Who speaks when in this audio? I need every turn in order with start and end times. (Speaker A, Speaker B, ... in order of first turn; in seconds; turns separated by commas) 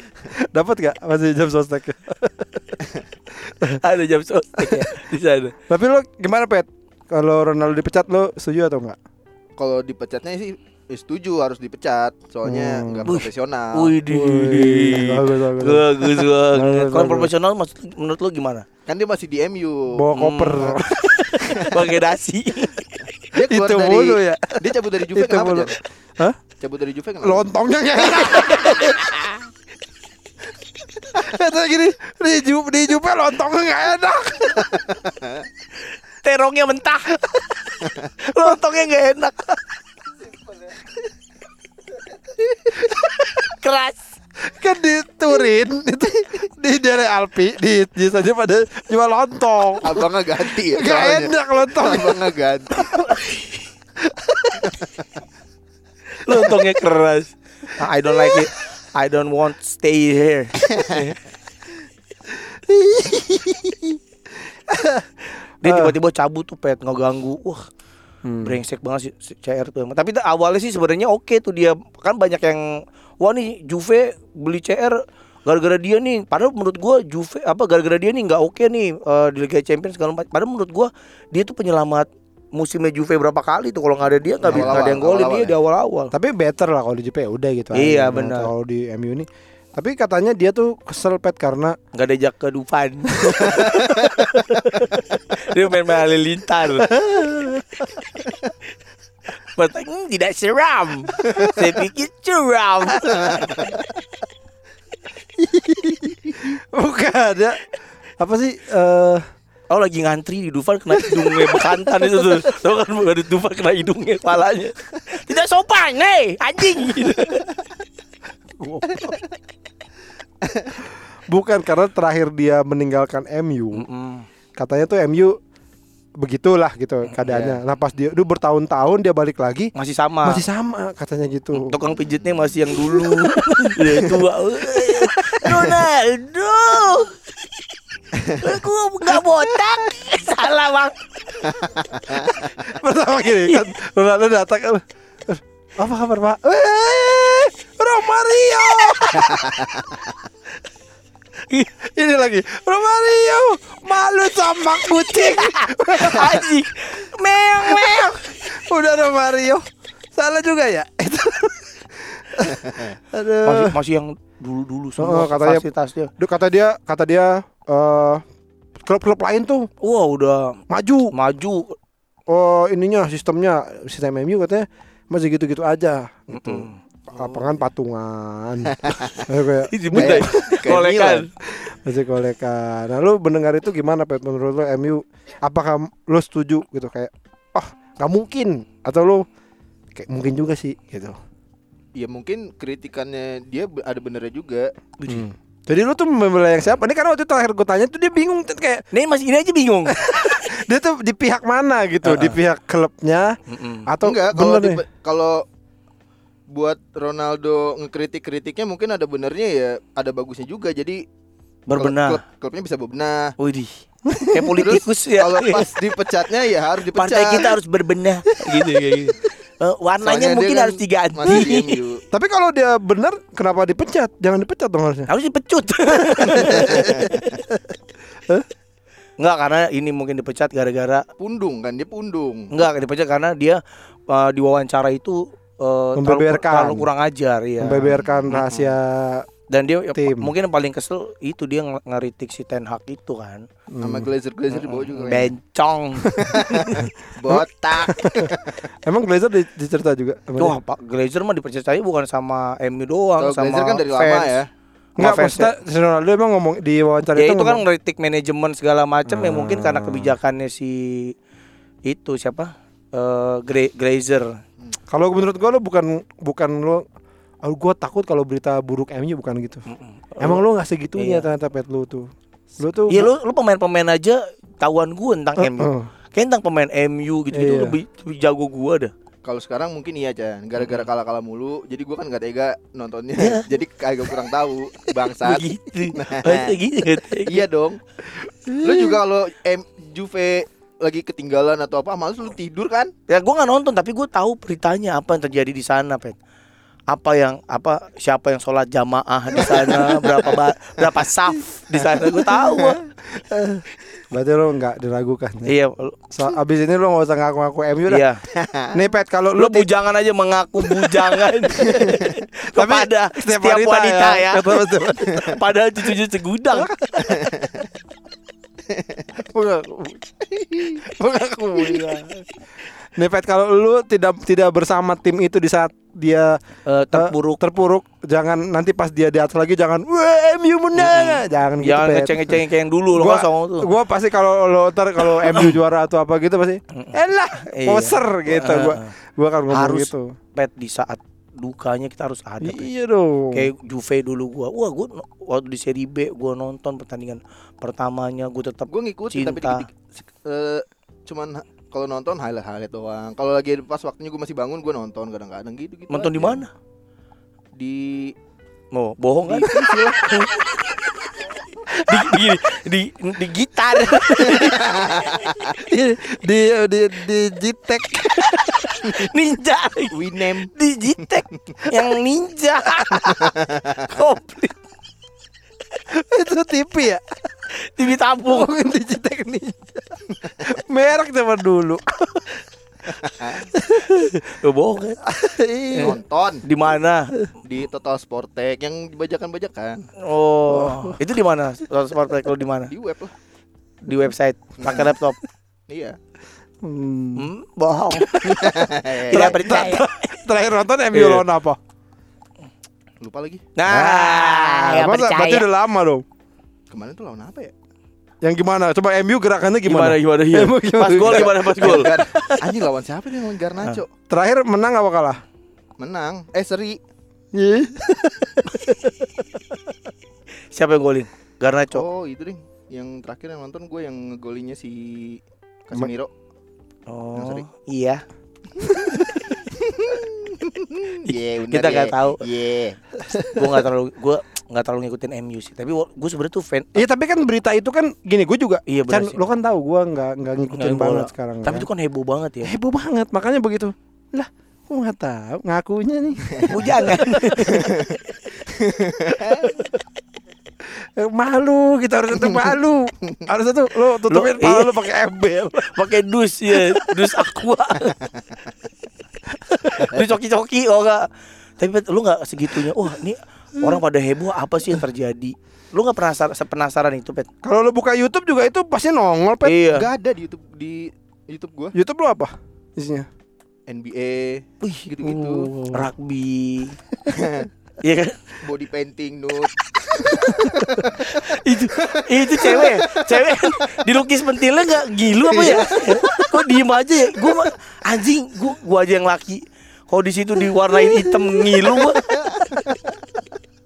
Speaker A: 0.3-3.8, Speaker B: 3.8-5.5, Speaker A: 4.6-5.0, Speaker A: 5.7-9.0, Speaker C: 9.6-13.9, Speaker A: 12.4-13.2, Speaker B: 13.1-18.7, Speaker A: 14.1-17.3, Speaker C: 18.9-20.1, Speaker A: 19.9-21.6, Speaker B: 20.1-23.1, Speaker C: 23.3-25.8, Speaker A: 23.4-26.4, Speaker C: 26.6-27.4, Speaker A: 27.2-29.1, Speaker C: 28.0-29.3, Speaker B: 28.3-28.9, Speaker A: 31.0-34.8, Speaker C: 34.9-35.5, Speaker B: 36.2-39.5, Speaker A: 42.9-43.3, Speaker B: 43.5-44.0, Speaker A: 44.4-54.9, Speaker C: 49.8-52.8, Speaker B: 56.2-61.2, Speaker A: 58.2-58.5, Speaker A: 62.3-66.0, Speaker B: 65.6-67.6, Speaker A: 68.2-68.6, Speaker B: 68.4-86.1, Speaker A: 84.4-85.0, Speaker C: 84.4-85.5, Speaker A: 86.1-91.8, Speaker B: 87.7-88.5, Speaker B: 91.9-96.9, Speaker A: 93.2-93.7, Speaker A: 96.8-98.0, Speaker B: 99.5-103.3, Speaker A: 105.4-107.6, Speaker A: 108.2-109.2, Speaker B: 109.7-117.5, Speaker A: 111.2-111.6, Speaker A: 118.6-119.2, Speaker A: 120.8-123.9, Speaker B: 123.7-124.3, Speaker A: 124.6-125.4, Speaker A: 126.2-129.7, Speaker B: 127.1-127.6, Speaker B: 129.8-130.4, Speaker A: 130.2-131.8, Speaker B: 131.5-137.2, Speaker A: 132.8-135.9, Speaker B: 138.2-141.7, Speaker C: 141.7-142.2, Speaker A: 142.3-149.8, Speaker A: 151.8-156.5, Speaker B: 155.2-158.4, Speaker A: 157.6-163.8, Speaker B: 163.4-166.1, Speaker A: 165.0-165.7, Speaker A: 166.2-168.2, Speaker A: 168.8-169.7, Speaker B: 169.8-170.6, Speaker A: 170.7-171.1, Speaker B: 171.1-171.8, Speaker A: 172.3-180.3, Speaker B: 176.3-176.8, Speaker C: 178.8-179.2, Speaker B: 179.7-181.3, Speaker C: 179.9-181.3, Speaker A: 181.4-189.3, Speaker A: 189.9-191.2, Speaker C: 192.0-194.7, Speaker A: 195.1-198.9, Speaker B: 198.9-200.4, Speaker A: 199.9-204.8, Speaker B: 202.0-202.4, Speaker B: 203.5-203.9, Speaker C: 204.0-205.4, Speaker C: 206.5-211.0, Speaker B: 211.7-212.2, Speaker C: 211.8-213.3, Speaker B: 213.4-215.7, Speaker A: 214.1-214.7, Speaker C: 214.6-217.6, Speaker B: 216.9-221.8, Speaker A: 218.5-218.8, Speaker C: 220.1-222.0, Speaker A: 222.1-225.1, Speaker B: 225.1-227.2, Speaker A: 226.1-227.7, Speaker C: 226.7-227.1, Speaker B: 229.2-231.0, Speaker C: 231.2-232.5, Speaker B: 232.5-238.7, Speaker A: 236.0-236.9, Speaker A: 237.6-239.3, Speaker B: 239.5-243.4, Speaker A: 239.9-240.3, Speaker A: 243.7-244.1, Speaker C: 243.8-245.3, Speaker B: 244.5-246.9, Speaker A: 246.1-250.6, Speaker C: 246.2-248.6, Speaker B: 250.4-254.3, Speaker C: 253.2-254.5, Speaker B: 255.0-255.5, Speaker A: 255.0-257.6, Speaker B: 257.1-261.1, Speaker A: 259.1-260.2, Speaker B: 261.9-264.4, Speaker A: 264.9-266.9, Speaker A: 267.4-269.6, Speaker B: 269.7-270.4, Speaker A: 270.2-273.1, Speaker B: 271.0-271.3, Speaker B: 272.9-278.9, Speaker A: 275.4-275.9, Speaker A: 277.3-277.8, Speaker C: 279.2-286.6, Speaker B: 280.6-280.9, Speaker B: 283.2-283.5, Speaker B: 285.2-287.4, Speaker C: 287.3-287.8, Speaker A: 288.1-289.0, Speaker C: 288.6-292.9, Speaker B: 293.1-296.2, Speaker B: 296.9-302.8, Speaker C: 299.8-300.3, Speaker C: 302.4-302.8, Speaker A: 303.1-305.6, Speaker B: 305.5-306.0, Speaker A: 306.1-308.1, Speaker B: 307.9-308.2, Speaker C: 308.3-308.7, Speaker A: 308.7-309.7, Speaker B: 309.4-317.3, Speaker A: 311.7-315.4, Speaker A: 316.6-317.3, Speaker C: 317.1-317.6, Speaker C: 318.7-319.1, Speaker A: 319.2-320.0, Speaker C: 320.4-320.8, Speaker A: 320.8-322.2, Speaker A: 323.0-326.4, Speaker B: 326.7-327.4, Speaker A: 326.9-332.4, Speaker B: 330.8-333.7, Speaker A: 332.9-340.1, Speaker B: 335.3-335.5, Speaker B: 336.7-338.9, Speaker B: 339.5-342.7, Speaker A: 342.4-343.5, Speaker B: 343.3-349.7, Speaker C: 348.7-356.4, Speaker B: 355.9-356.5, Speaker C: 357.6-358.1, Speaker B: 358.7-364.9, Speaker C: 359.3-360.3, Speaker A: 361.8-362.2, Speaker C: 364.2-365.5, Speaker A: 365.4-368.5, Speaker B: 368.2-374.6, Speaker C: 369.9-370.5, Speaker C: 373.2-373.7, Speaker A: 375.9-377.0, Speaker B: 377.6-378.5, Speaker A: 378.2-384.4, Speaker C: 383.2-383.5, Speaker B: 384.3-385.0, Speaker A: 385.0-386.0, Speaker B: 385.7-387.1, Speaker C: 385.8-386.5, Speaker C: 387.4-389.9, Speaker B: 390.0-392.7, Speaker A: 390.5-391.0, Speaker C: 392.7-393.1, Speaker B: 393.9-395.2, Speaker C: 394.6-394.9, Speaker C: 395.7-396.0, Speaker A: 396.6-397.3, Speaker B: 397.2-399.9, Speaker A: 398.0-401.6, Speaker C: 398.3-399.4, Speaker B: 400.9-401.2, Speaker C: 403.0-403.5, Speaker B: 403.6-405.5, Speaker A: 403.7-406.0, Speaker C: 406.7-407.5, Speaker A: 408.2-412.5, Speaker B: 409.7-411.9, Speaker C: 411.1-413.9, Speaker A: 414.1-415.2, Speaker C: 415.8-416.8, Speaker A: 417.3-419.6, Speaker B: 420.5-421.9, Speaker C: 421.7-426.1, Speaker B: 426.9-428.0, Speaker C: 427.2-427.4, Speaker C: 428.6-433.4, Speaker B: 431.0-432.2, Speaker B: 433.3-436.9, Speaker A: 436.8-441.7, Speaker B: 438.7-439.2, Speaker B: 440.5-442.5, Speaker A: 442.4-447.9, Speaker B: 446.4-447.7, Speaker C: 447.6-447.9, Speaker C: 448.6-449.4, Speaker A: 450.8-455.7, Speaker B: 454.1-454.8, Speaker B: 455.6-458.1, Speaker A: 459.3-459.9, Speaker B: 459.8-461.1, Speaker B: 461.6-467.3, Speaker A: 467.4-469.6, Speaker B: 469.4-469.9, Speaker C: 469.7-471.7, Speaker A: 471.7-473.1, Speaker C: 473.7-475.5, Speaker A: 475.0-475.9, Speaker B: 475.7-476.8, Speaker C: 477.1-477.5, Speaker B: 477.8-478.2, Speaker C: 478.4-481.1, Speaker A: 480.1-480.6, Speaker B: 481.0-492.7, Speaker C: 481.8-483.4, Speaker C: 485.4-486.3, Speaker C: 492.2-492.8